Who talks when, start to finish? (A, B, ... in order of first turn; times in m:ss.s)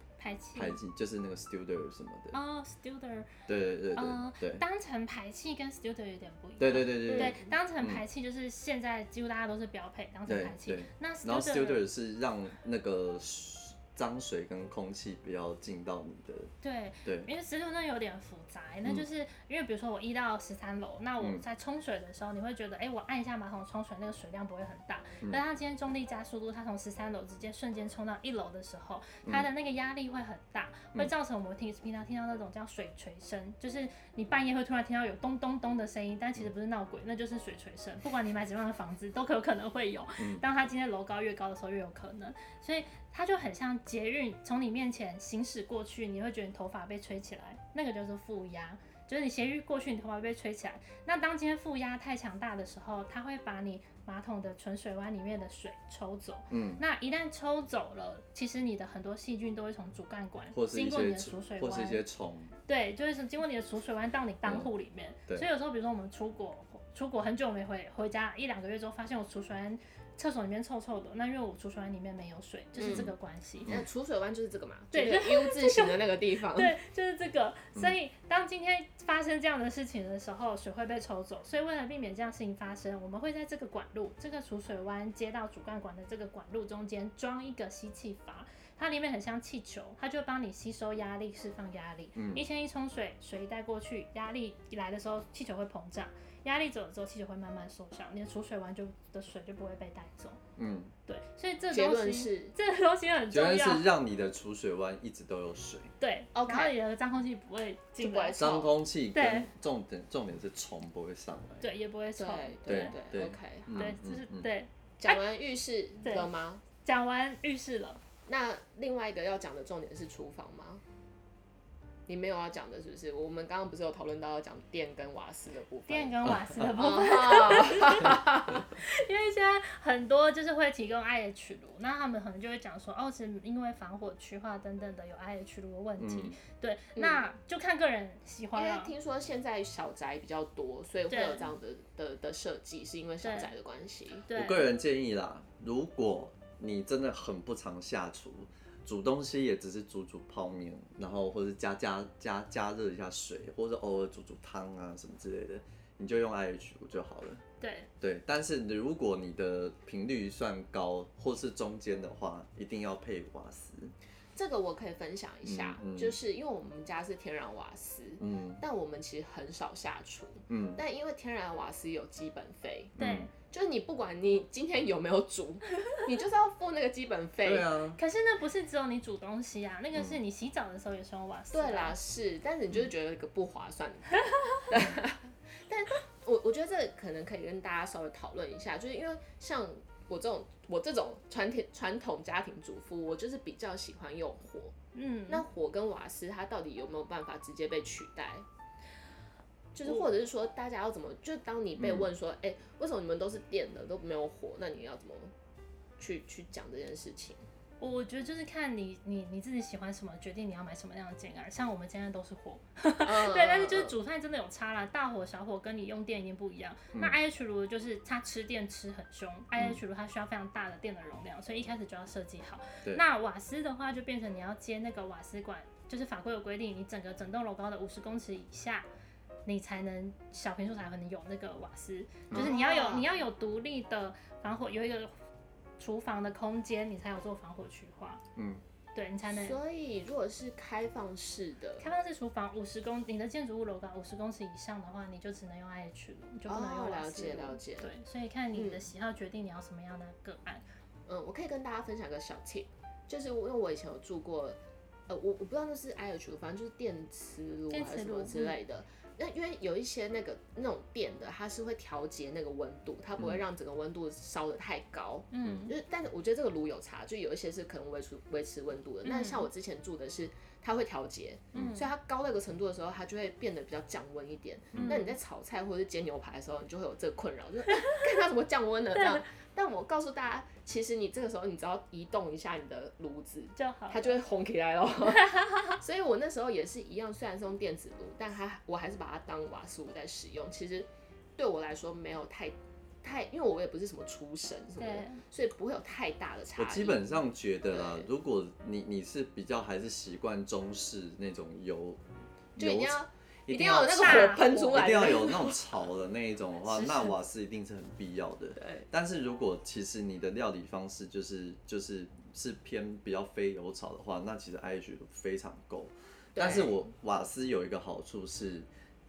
0:00.2-0:00.8 A
0:00.6-0:02.4 B
0:02.3-0:03.3 A
0:03.5-0:04.6 B
0:03.9-0:11.8 A
0:06.6-0:08.0 B
0:07.1-0:07.4 C
0:10.2-0:16.5 B
0:16.6-1:02.0 A
0:17.0-0:17.3 B
0:21.2-0:21.4 B
0:40.2-0:40.4 B
0:56.5-0:56.8 B
1:00.5-1:02.5 B
1:02.6-1:13.7 A
1:04.4-1:04.7 B
1:12.8-1:13.1 C
1:13.6-1:16.8 C
1:14.9-1:16.0 A
1:16.5-1:40.4 A
1:32.2-1:32.4 B
1:40.6-1:40.9 B
1:41.1-1:43.9 A
1:41.7-1:42.5 C
1:43.3-1:45.9 B
1:46.0-1:48.4 A
1:46.3-1:46.8 C
1:48.0-1:48.7 C
1:48.4-1:51.7 B
1:49.1-1:49.5 A
1:51.6-1:53.0 A
1:52.2-1:53.9 C
1:52.7-1:54.5 B
1:53.8-1:55.2 A
1:55.0-1:56.6 C
1:56.0-1:56.3 A
1:56.8-1:58.0 A
1:58.3-2:00.8 C
2:02.1-2:08.6 C
2:05.9-2:18.9 A
2:06.3-2:06.7 B
2:16.0-2:16.4 B
2:17.0-2:17.2 C
2:18.5-2:24.2 C
2:21.1-2:21.5 A
2:23.2-2:23.5 A
2:24.2-2:24.7 A
2:24.3-2:37.4 B
2:37.6-2:37.9 A
2:38.0-2:43.9 B
2:44.3-2:52.9 C
2:45.4-2:46.2 B
2:48.2-2:48.6 B
2:50.5-2:50.8 B
2:53.0-2:53.3 B
2:53.0-2:53.3 A
2:53.5-2:57.7 C
2:57.4-2:58.0 B
2:58.0-3:02.0 A
3:01.5-3:14.7 C
3:14.9-3:15.4 A
3:15.3-3:18.4 C
3:19.7-3:25.3 C
3:21.8-3:22.1 B
3:26.0-3:27.4 C
3:27.8-3:48.8 A
3:33.0-3:34.0 C
3:49.4-3:55.1 A
3:52.3-3:53.1 C
3:55.8-3:58.2 A
3:58.4-3:58.6 B
3:58.9-3:59.6 A
3:59.2-4:01.8 C
4:01.8-4:10.6 A
4:06.5-4:07.9 C
4:08.5-4:08.9 C
4:11.1-4:58.1 C
4:17.7-4:18.6 A
4:25.3-4:25.8 A
4:29.0-4:29.5 A
4:31.5-4:31.8 A
4:34.7-4:35.0 B
4:34.7-4:35.1 A
4:37.7-4:38.0 A
4:38.9-4:39.2 A
4:43.6-4:44.2 A
4:45.0-4:45.8 A
4:54.8-4:55.2 A
4:56.6-5:02.0 B
5:02.6-5:05.8 C
5:02.6-5:18.7 B
5:04.0-5:05.3 A
5:06.6-5:07.2 A
5:08.6-5:08.9 C
5:16.3-5:16.8 C